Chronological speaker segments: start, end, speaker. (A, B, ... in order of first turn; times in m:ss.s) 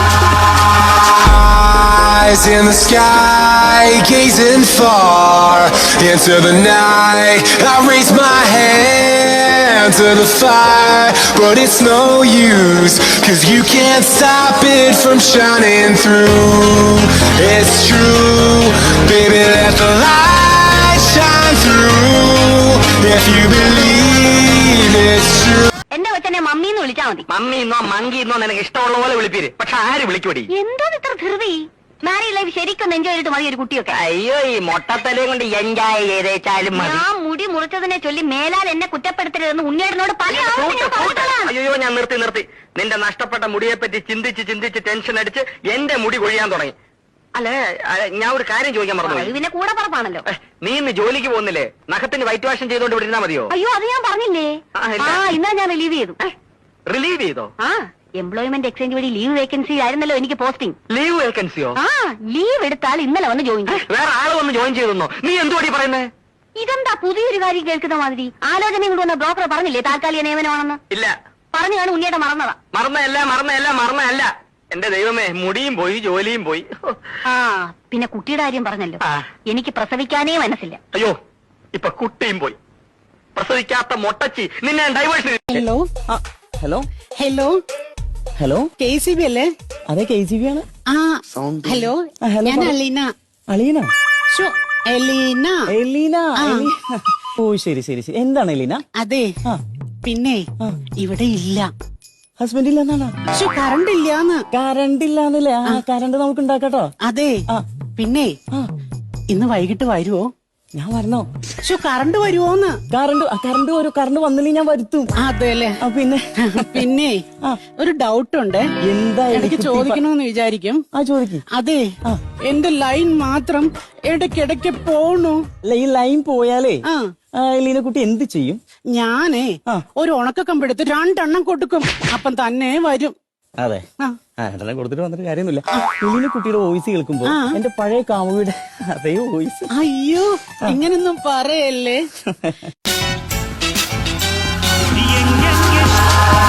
0:01.3-0:25.7 A
0:25.9-0:27.2 B
0:27.3-0:30.5 C
0:30.5-0:34.0 B
0:34.0-0:37.0 C
0:36.7-0:41.5 B
0:40.3-0:46.7 C
0:47.3-0:49.3 C
0:49.0-0:50.2 B
0:50.3-0:53.5 C
0:53.5-0:56.2 B
0:54.8-0:55.3 C
0:56.9-0:57.5 C
0:57.6-1:00.8 B
1:00.9-1:01.8 C
1:01.7-1:03.8 B
1:03.7-1:06.1 C
1:06.6-1:10.8 B
1:11.5-1:12.6 B
1:12.7-1:16.9 C
1:17.3-1:20.8 B
1:21.7-1:22.6 C
1:23.4-1:25.6 C
1:25.5-1:25.9 D
1:26.1-1:26.9 E
1:27.2-1:27.5 D
1:28.4-1:28.7 E
1:28.8-1:29.4 D
1:29.9-1:30.6 E
1:30.9-1:33.1 D
1:32.2-1:32.8 E
1:33.5-1:33.9 E
1:34.3-1:35.7 D
1:35.7-1:38.8 E
1:36.4-1:36.7 D
1:38.9-1:39.3 D
1:40.0-1:40.4 D
1:41.0-1:41.7 D
1:42.4-1:43.1 E
1:43.3-1:44.4 D
1:44.5-1:46.9 E
1:47.0-1:47.4 D
1:48.0-1:48.4 D
1:49.3-1:50.2 D
1:50.7-1:51.3 E
1:51.6-1:52.8 D
1:52.9-1:55.1 E
1:55.2-1:55.8 D
1:55.8-1:56.9 E
1:56.4-1:58.7 D
1:58.8-2:00.0 E
1:59.3-2:00.8 D
2:00.9-2:01.4 E
2:01.5-2:01.9 D
2:02.4-2:05.4 D
2:05.6-2:06.8 E
2:06.8-2:07.1 D
2:07.3-2:08.6 E
2:08.9-2:13.1 D
2:13.6-2:13.8 E
2:14.4-2:19.7 E
2:17.2-2:17.6 D
2:19.7-2:22.0 D
2:22.3-2:22.6 E
2:25.0-2:25.8 E